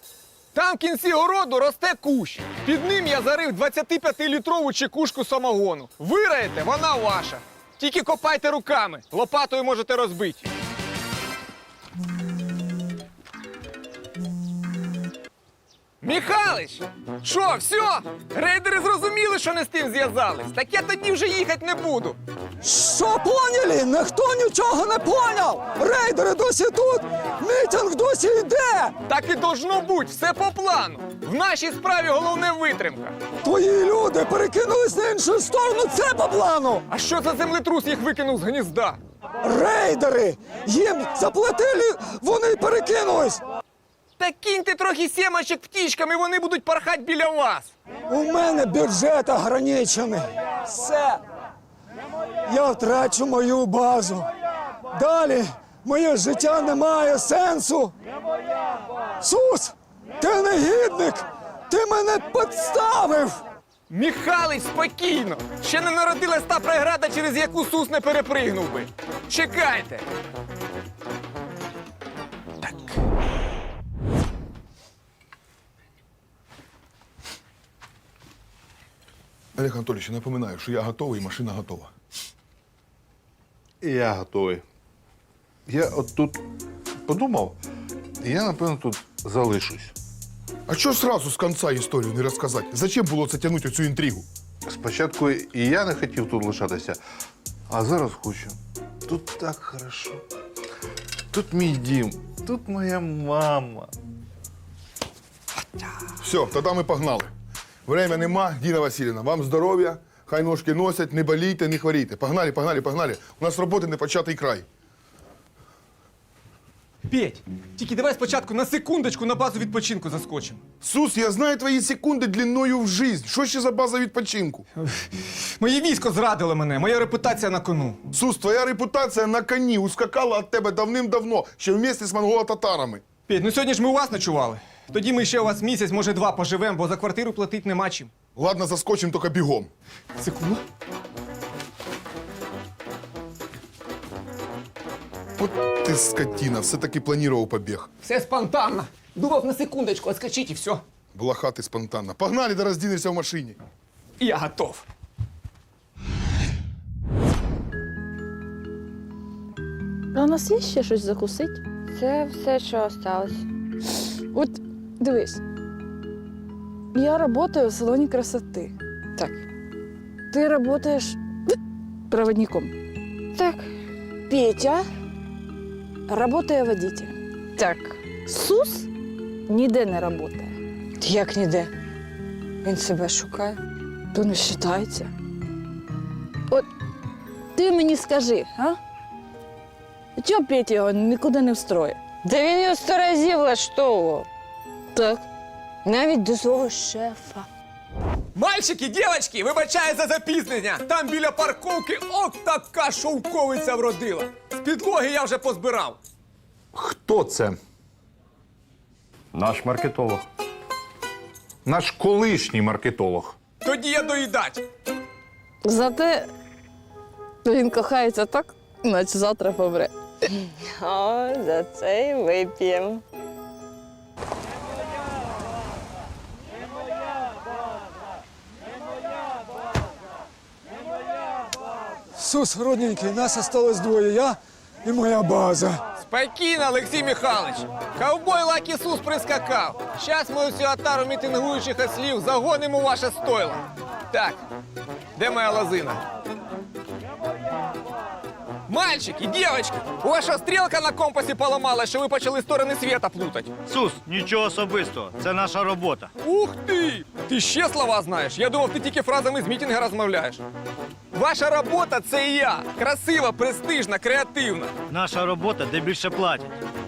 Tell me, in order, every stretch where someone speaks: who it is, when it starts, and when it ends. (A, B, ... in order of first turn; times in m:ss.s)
0:00.5-0:10.5 A
0:16.0-0:22.2 A
0:22.6-0:29.0 B
0:29.1-0:33.2 A
0:33.4-0:36.8 B
0:36.9-0:39.0 A
0:39.4-0:43.4 B
0:44.2-0:47.7 A
0:48.1-0:51.2 B
0:52.5-0:54.3 B
0:54.9-0:57.9 B
0:59.2-1:03.4 B
1:03.9-1:10.0 A
1:12.6-1:12.9 A
1:19.5-1:21.9 C
1:23.8-1:24.6 D
1:25.7-1:26.4 D
1:27.1-1:27.6 D
1:28.2-1:29.9 D
1:30.7-1:34.3 C
1:34.7-1:37.0 D
1:37.7-1:40.2 D
1:41.3-1:43.9 D
1:46.2-1:47.3 C
1:47.9-1:54.7 C
1:57.1-2:00.6 A
2:00.8-2:04.7 C
2:04.8-2:05.0 A
2:05.6-2:08.0 A
2:08.1-2:13.0 C
2:13.3-2:18.1 A
2:18.4-2:19.7 C
2:20.2-2:20.6 A
2:25.4-2:27.9 C
2:28.0-2:30.8 A
2:31.1-2:33.6 C
2:34.2-2:34.8 A
2:40.1-2:41.6 E
2:41.9-2:43.5 F
2:44.3-2:45.4 E
2:46.9-2:48.8 E
2:49.2-2:49.4 F
2:50.3-2:51.2 E
2:52.1-2:52.7 E
2:53.3-2:53.7 F
2:54.3-2:54.9 E
2:56.1-2:57.2 E
2:57.6-2:58.0 F
2:58.2-2:58.9 E
2:59.5-3:00.5 E
3:01.0-3:01.7 F
3:02.6-3:03.6 F
3:04.1-3:05.1 E
3:07.5-3:08.8 E
3:10.2-3:12.0 E
3:12.2-3:14.2 F
3:14.9-3:15.2 E
3:15.8-3:17.5 F
3:18.4-3:26.0 A
3:26.7-3:27.6 D
3:29.3-3:30.2 D
3:31.6-3:33.4 D
3:33.6-3:34.6 A
3:35.6-3:36.3 E
3:37.4-3:39.9 E
3:40.6-3:42.8 F
3:52.2-3:55.8 B
3:56.0-4:04.4 A
4:05.2-4:06.0 A
4:08.7-4:13.5 A
4:13.7-4:16.1 G
4:16.2-4:20.4 A
4:21.1-4:24.7 A
4:24.9-4:26.5 G